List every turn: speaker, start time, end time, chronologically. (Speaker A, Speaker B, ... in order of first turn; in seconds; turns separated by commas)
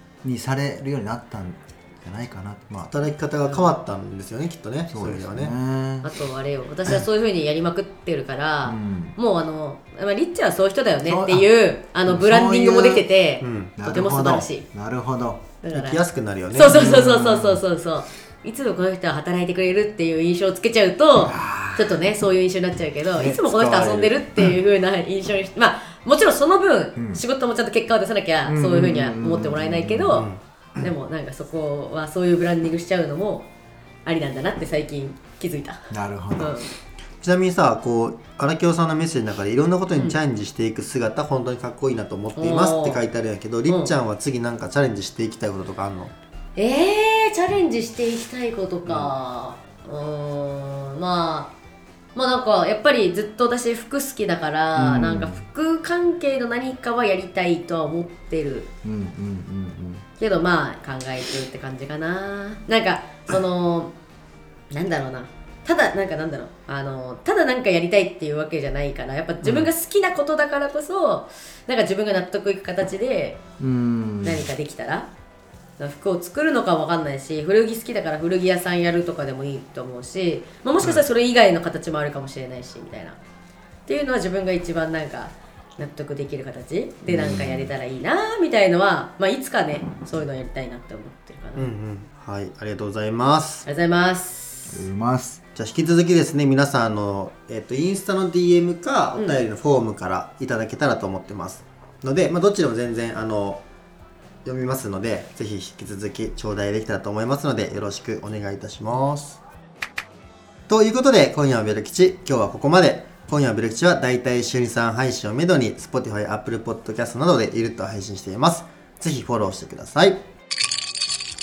Speaker A: 0.2-2.9, Speaker B: 2.9-5.5, Speaker A: 4.9-6.1, Speaker C: 6.0-14.7, Speaker A: 8.6-9.2, Speaker A: 11.0-11.5, Speaker A: 12.1-13.1, Speaker B: 13.4-13.8, Speaker A: 13.8-15.5, Speaker C: 15.6-16.0, Speaker B: 15.7-16.9, Speaker C: 16.5-30.3, Speaker A: 16.6-17.6, Speaker A: 21.2-22.0, Speaker B: 23.1-24.4, Speaker A: 26.9-27.2, Speaker A: 28.5-30.2, Speaker B: 30.1-30.9, Speaker C: 30.8-33.5, Speaker C: 34.0-36.7, Speaker A: 35.9-36.6, Speaker B: 37.2-46.1, Speaker C: 42.4-43.0, Speaker C: 43.7-43.9, Speaker C: 46.5-51.5, Speaker A: 48.9-49.1, Speaker C: 52.1-58.7, Speaker A: 54.7-55.4, Speaker A: 58.8-60.0, Speaker C: 60.2-63.9, Speaker C: 64.7-73.4, Speaker B: 69.4-69.7, Speaker A: 73.6-74.5, Speaker C: 74.2-75.1, Speaker C: 75.8-83.2, Speaker C: 83.9-91.7, Speaker B: 87.1-87.7, Speaker B: 91.5-93.7, Speaker C: 93.7-94.8, Speaker A: 94.7-95.4, Speaker B: 95.5-103.6, Speaker C: 99.2-99.4, Speaker B: 104.4-109.4, Speaker B: 110.7-120.2